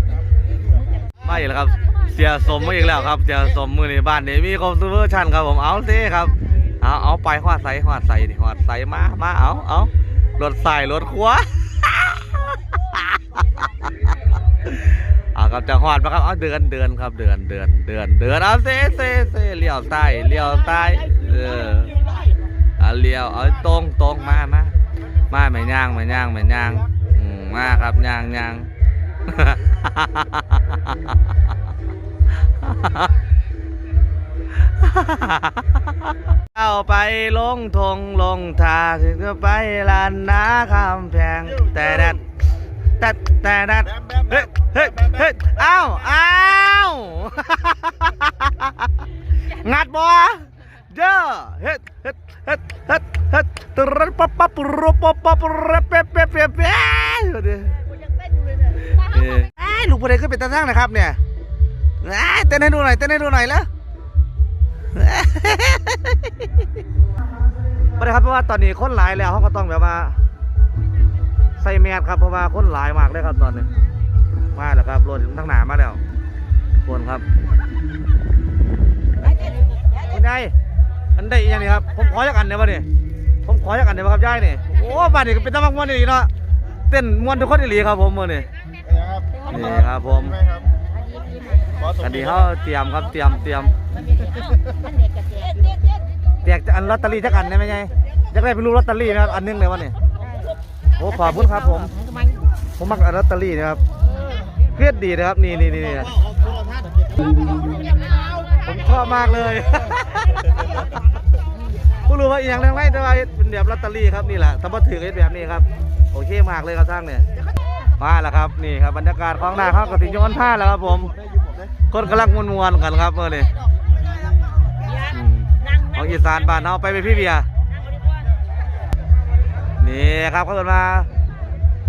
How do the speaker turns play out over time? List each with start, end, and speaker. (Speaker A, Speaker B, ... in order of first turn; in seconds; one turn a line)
Speaker A: 0.7-1.0
Speaker B: 1.2-12.3
Speaker B: 12.9-13.4
Speaker B: 14.7-21.9
Speaker A: 20.4-22.4
Speaker B: 22.8-24.7
Speaker B: 25.3-28.7
Speaker B: 29.2-30.9
Speaker B: 32.6-33.2
Speaker B: 34.8-42.2
Speaker B: 43.0-48.9
Speaker B: 49.6-57.7
Speaker A: 57.7-59.0
Speaker B: 59.0-61.2
Speaker B: 62.0-63.7
Speaker B: 64.9-66.7
Speaker B: 68.0-70.1
Speaker B: 71.6-73.7
Speaker B: 74.5-76.0
Speaker B: 76.8-77.2
Speaker A: 79.2-80.2
Speaker B: 80.1-80.5
Speaker B: 81.2-82.9
Speaker B: 83.5-86.3
Speaker B: 86.9-88.5
Speaker A: 89.3-89.9
Speaker B: 89.5-90.4
Speaker A: 90.8-92.0
Speaker B: 92.0-93.7
Speaker A: 93.5-96.0
Speaker B: 96.4-99.9
Speaker A: 100.2-102.5
Speaker B: 101.0-101.9
Speaker B: 102.8-103.8
Speaker B: 104.8-106.2
Speaker A: 107.5-108.6
Speaker B: 108.6-110.7
Speaker B: 112.1-117.2
Speaker B: 118.0-121.1
Speaker B: 121.9-123.5
Speaker A: 124.8-127.1
Speaker B: 125.1-127.5
Speaker A: 127.6-128.3
Speaker B: 129.8-131.1